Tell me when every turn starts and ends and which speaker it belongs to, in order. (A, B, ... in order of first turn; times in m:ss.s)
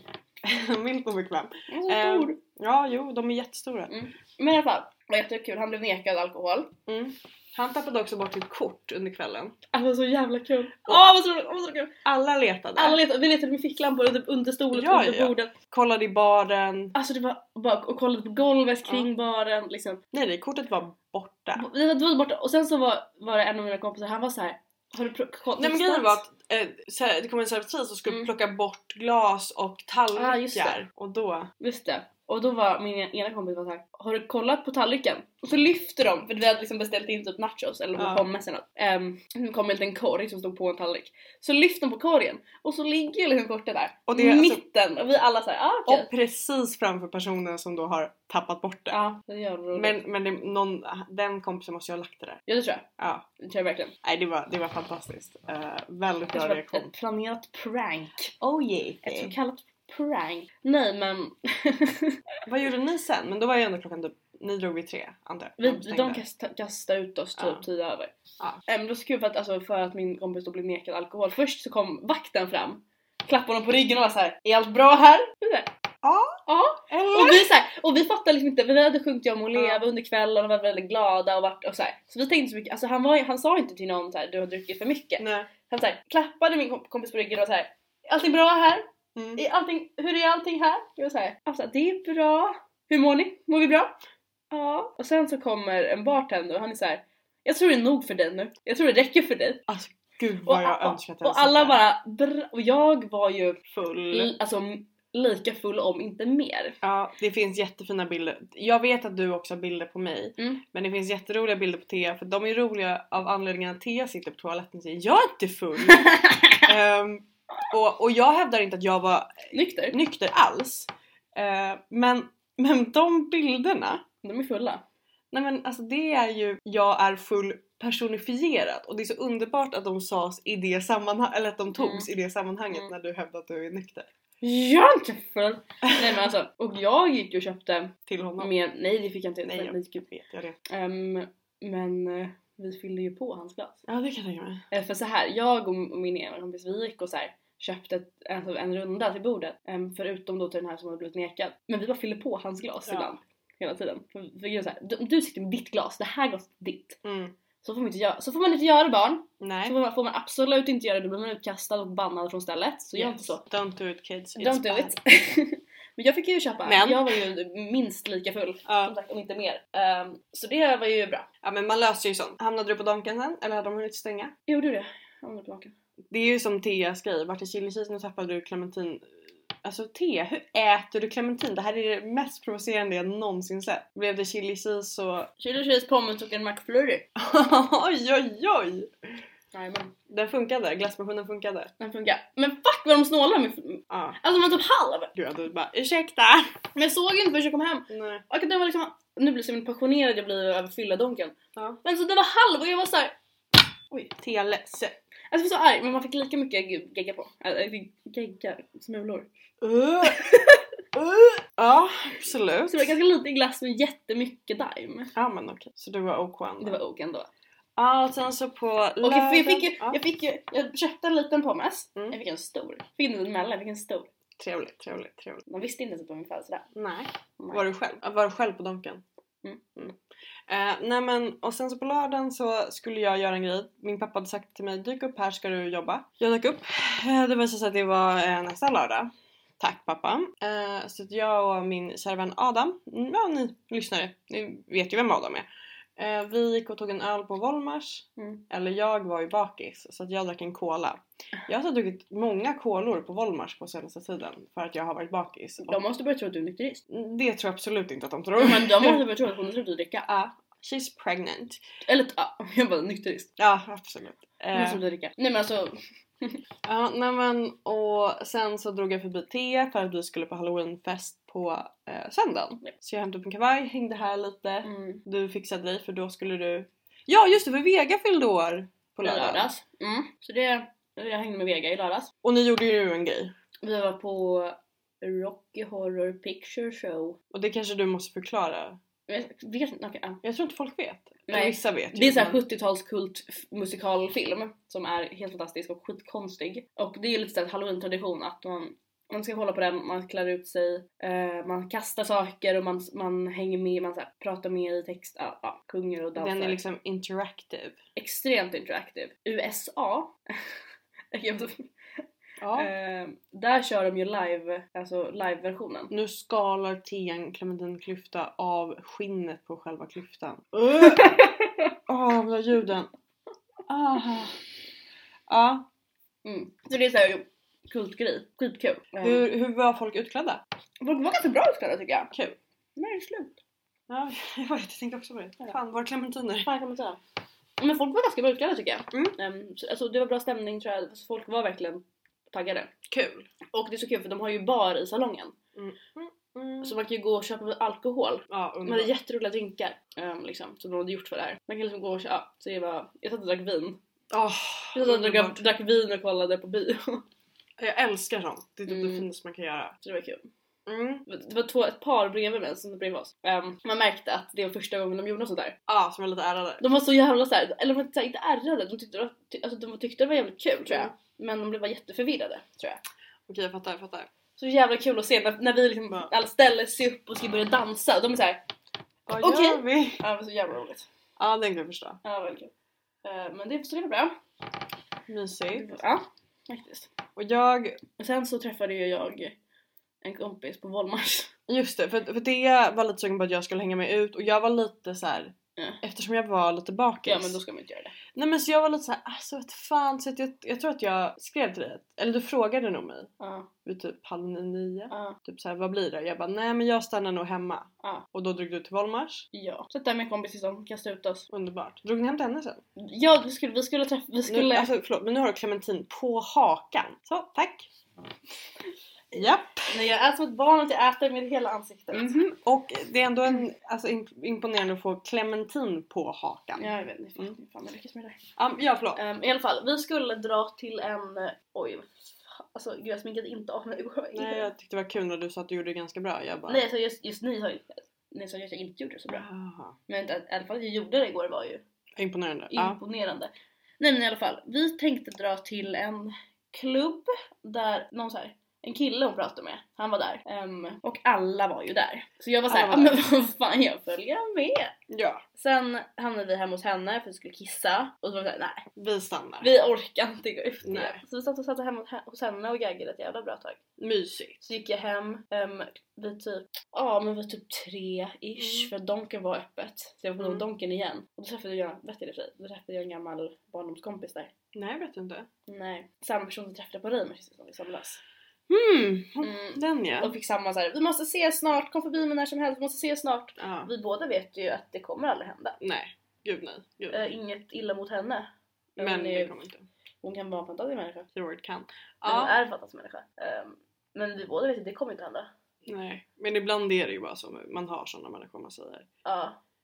0:00.4-0:03.9 A
0:01.7-0:02.4 B
0:03.9-0:06.7 B
0:06.9-0:09.5 A
0:09.7-0:11.9 B
0:10.9-0:11.1 A
0:12.0-0:13.0 A
0:12.8-0:15.5 B
0:14.7-0:16.9 A
0:16.9-0:20.0 B
0:20.1-0:21.6 A
0:21.6-0:26.2 B
0:25.6-0:31.5 A
0:30.1-0:30.8 B
0:31.6-0:46.1 B
0:38.0-0:38.3 A
0:44.1-0:44.6 A
0:45.9-0:49.0 A
0:48.9-0:50.0 B
0:49.7-0:52.4 A
0:52.5-0:52.9 B
0:53.0-0:53.2 A
0:53.4-0:53.9 B
0:54.0-0:56.9 A
0:56.3-0:58.3 B
0:58.4-0:59.3 A
0:59.0-1:02.2 B
1:02.4-1:06.2 A
1:05.6-1:08.1 B
1:07.4-1:07.6 A
1:08.7-1:15.7 B
1:16.0-1:17.5 A
1:16.5-1:34.0 B
1:19.5-1:19.8 A
1:25.2-1:25.5 A
1:29.2-1:29.4 A
1:34.5-1:39.6 B
1:39.7-1:41.8 A
1:40.4-1:46.8 B
1:43.7-1:44.3 A
1:46.8-2:04.0 A
1:55.9-1:56.6 B
1:59.5-2:00.0 B
2:04.2-2:04.8 B
2:05.3-2:14.1 A
2:11.7-2:12.1 B
2:14.4-2:20.0 B
2:18.0-2:18.5 A
2:19.4-2:20.6 A
2:20.6-2:23.8 B
2:23.9-2:24.6 A
2:24.7-2:37.0 B
2:32.9-2:33.1 A
2:37.0-2:37.3 A
2:37.6-2:43.4 B
2:39.4-2:39.8 A
2:42.9-2:45.0 A
2:44.4-2:51.3 B
2:46.6-2:47.2 A
2:48.6-2:48.9 A
2:51.4-2:54.3 A
2:54.5-2:55.7 B
2:56.1-3:05.3 A
3:05.4-3:07.0 B
3:07.2-3:09.1 A
3:09.5-3:09.9 B
3:10.1-3:11.7 A
3:11.8-3:15.1 B
3:13.9-3:14.2 A
3:15.1-3:16.6 A
3:16.7-3:23.1 B
3:17.9-3:18.2 A
3:24.2-3:25.0 A
3:25.3-3:29.3 B
3:29.6-3:30.3 A
3:30.0-3:30.6 B
3:30.9-3:32.9 A
3:32.7-3:35.1 B
3:35.1-3:36.8 A
3:36.6-3:37.3 B
3:37.8-3:40.0 A
3:39.0-3:44.1 B
3:44.4-3:45.4 A
3:45.4-3:46.7 B
3:46.7-3:49.0 A
3:50.5-4:05.4 A
4:06.0-4:15.8 A
4:08.2-4:08.4 B
4:15.6-4:16.8 B
4:16.9-4:19.0 A
4:18.4-4:20.1 B
4:20.0-4:21.6 A
4:21.8-4:23.3 B
4:23.4-4:24.8 A
4:24.5-4:26.4 B
4:26.6-4:39.5 A
4:34.6-4:35.0 B
4:39.0-4:42.1 B
4:42.2-4:43.3 A
4:43.6-4:47.2 B
4:47.3-4:48.8 A
4:49.1-4:50.2 B
4:50.2-4:52.4 A
4:51.3-5:06.6 B
5:06.2-5:07.8 A
5:08.0-5:10.3 B
5:11.1-5:12.0 B
5:12.4-5:12.7 A
5:12.5-5:15.9 B
5:15.9-5:21.2 A
5:20.8-5:21.7 B
5:21.9-5:22.9 A
5:23.7-5:24.4 A
5:25.3-5:25.6 A
5:26.2-5:29.2 B
5:29.0-5:30.4 A
5:30.8-5:32.1 B
5:32.1-5:32.4 A
5:32.8-5:33.4 B
5:33.9-5:36.5 A
5:36.4-5:37.0 B
5:37.6-5:42.7 B
5:38.9-5:39.2 A
5:42.9-5:43.3 A
5:43.5-5:45.4 B
5:45.6-5:46.7 A
5:46.6-5:53.8 B
5:48.3-5:48.9 A
5:54.1-5:55.4 A
5:54.7-5:57.0 B
5:57.6-5:59.8 A
5:58.7-5:59.1 B
5:59.8-6:00.3 B
6:00.6-6:01.0 A
6:01.1-6:05.6 B
6:05.7-6:06.6 A
6:06.6-6:12.8 B
6:10.7-6:10.9 A
6:13.3-6:14.1 A
6:14.4-6:18.4 B
6:19.1-6:20.0 A
6:19.2-6:20.9 B
6:21.2-6:22.0 A
6:22.0-6:22.5 B
6:23.0-6:24.1 B
6:25.1-6:25.7 A
6:25.5-6:26.9 B
6:27.2-6:27.8 A
6:28.0-6:29.4 B
6:30.0-6:31.3 B
6:31.5-6:37.4 A
6:37.0-6:37.9 B
6:38.1-6:43.1 A
6:43.2-6:43.5 B
6:43.6-6:49.3 A
6:44.9-6:45.2 B
6:49.3-6:51.3 B
6:51.3-6:52.6 A
6:52.8-6:54.7 B
6:54.3-6:57.7 A
6:59.1-6:59.8 A
6:59.2-7:02.2 B
7:01.9-7:07.3 A
7:06.6-7:08.2 B
7:08.4-7:09.0 A
7:08.9-7:14.5 B
7:14.1-7:16.6 A
7:16.5-7:19.2 B
7:19.1-7:19.8 A
7:19.9-7:21.6 B
7:22.0-7:22.8 A
7:22.5-7:34.7 B
7:32.5-7:33.0 A
7:34.9-7:35.2 A
7:35.4-7:38.6 B
7:38.8-7:39.5 A
7:39.4-7:43.6 B
7:40.6-7:41.0 A
7:43.8-7:44.4 A
7:44.4-7:54.3 B
7:48.4-7:48.7 A
7:54.5-7:55.3 A
7:55.5-7:58.0 B
7:58.5-8:00.1 A
7:59.2-8:05.6 B
8:03.4-8:03.7 A
8:05.6-8:07.0 A
8:06.9-8:09.3 B
8:08.8-8:09.6 A
8:10.0-8:11.1 B
8:11.1-8:12.3 A
8:12.0-8:15.3 B
8:15.6-8:18.9 A
8:19.0-8:19.4 B